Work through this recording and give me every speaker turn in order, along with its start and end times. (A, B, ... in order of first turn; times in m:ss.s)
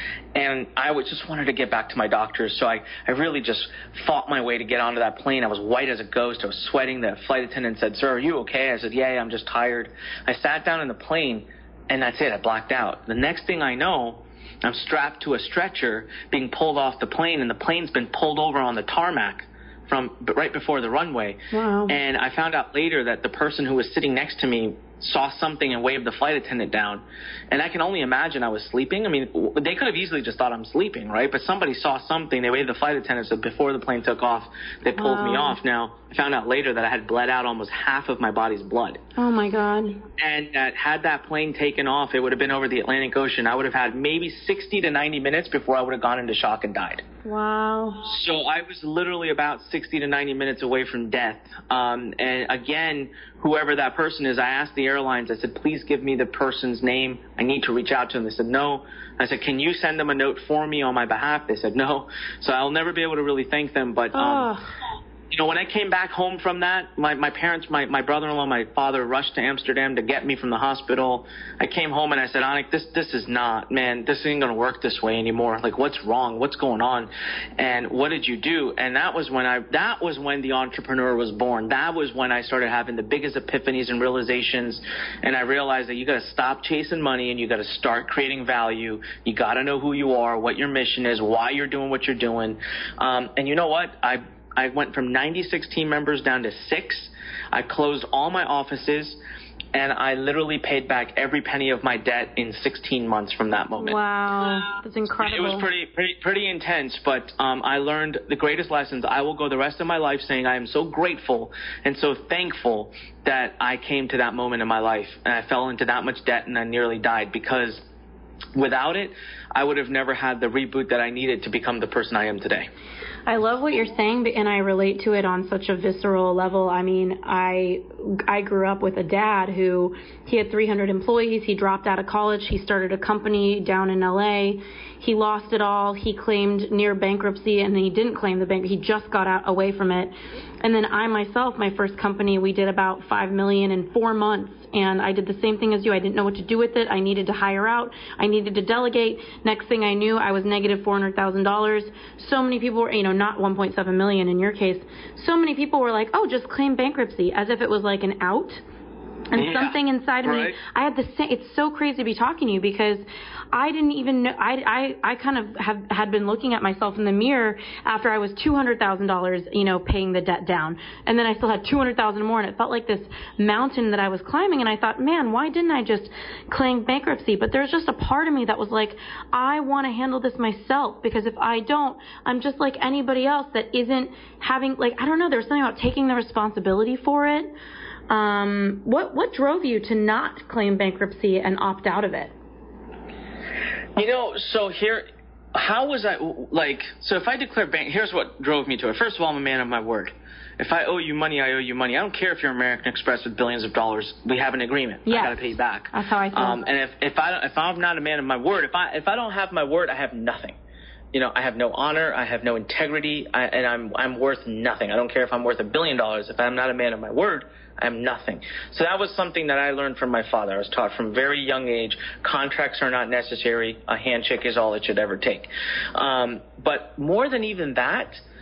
0:00.3-0:39.0 A
0:21.5-0:22.0 B
0:35.0-0:35.6 B
0:39.2-0:40.0 B
0:40.2-0:47.0 A
0:47.2-0:48.0 B
0:48.0-1:04.5 A
1:04.1-1:04.7 B
1:05.3-1:39.2 A
1:39.7-1:44.0 A
1:43.8-1:45.7 B
1:45.2-1:57.8 A
1:58.5-2:02.7 A
2:03.2-2:38.6 B
2:39.3-3:07.5 B
2:39.4-2:40.6 A
3:08.1-3:12.3 B
3:14.0-3:30.6 A
3:25.1-3:26.6 B
3:31.1-3:48.2 A